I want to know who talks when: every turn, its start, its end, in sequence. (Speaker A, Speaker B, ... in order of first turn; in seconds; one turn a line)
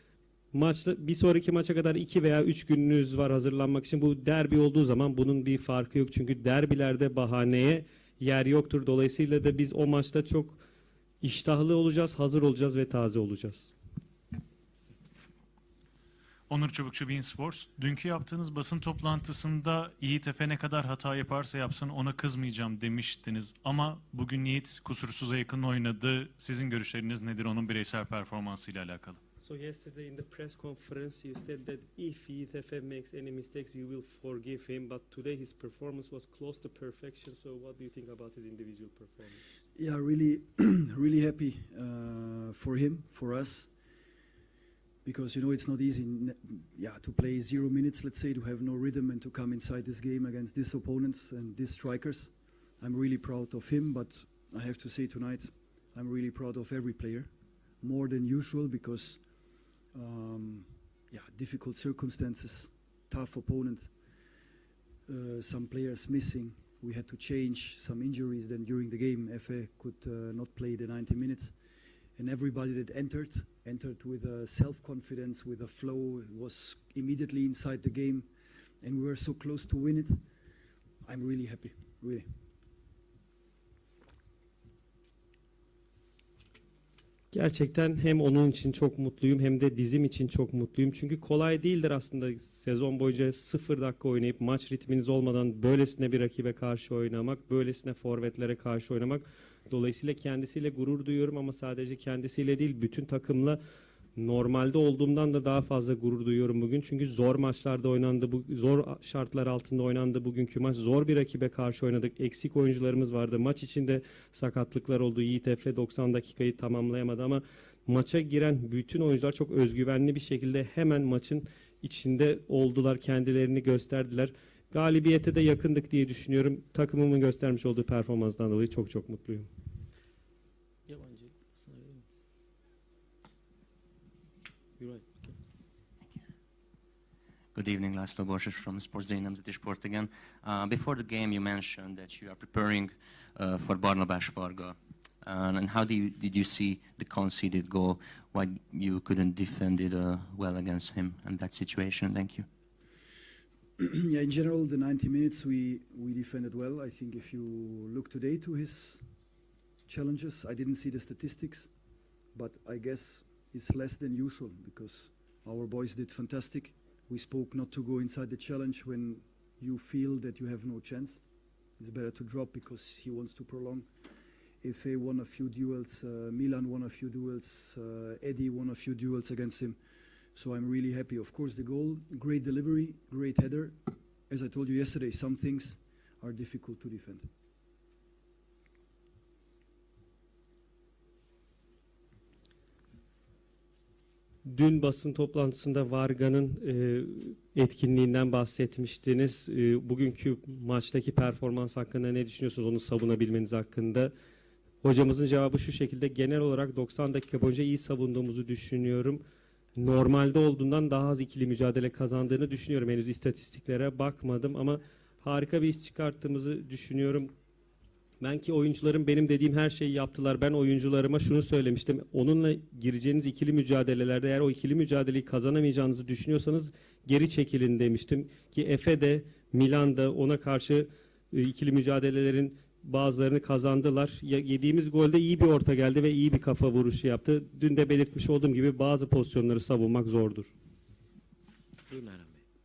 Speaker A: 0.5-10.6
Speaker A: 11.2-13.7
Speaker B: 16.5-29.2
Speaker A: 29.4-39.4
Speaker C: 39.8-43.7
Speaker C: 45.0-57.3
Speaker C: 57.8-59.2
Speaker C: 59.9-63.9
Speaker C: 65.1-71.5
Speaker C: 72.2-78.3
Speaker C: 78.8-80.2
Speaker C: 81.0-82.3
Speaker A: 87.3-103.6
Speaker A: 104.2-129.5
Speaker D: 130.9-132.1
Speaker D: 134.8-135.4
Speaker E: 137.6-152.5
Speaker C: 153.8-159.0
Speaker C: 159.9-161.7
Speaker C: 162.3-171.2
Speaker C: 171.8-173.9
Speaker C: 174.6-179.8
Speaker C: 180.3-183.8
Speaker C: 184.3-187.3
Speaker A: 194.4-204.1
Speaker A: 204.8-209.2
Speaker A: 209.8-217.3
Speaker A: 218.2-240.5
Speaker D: 241.9-242.4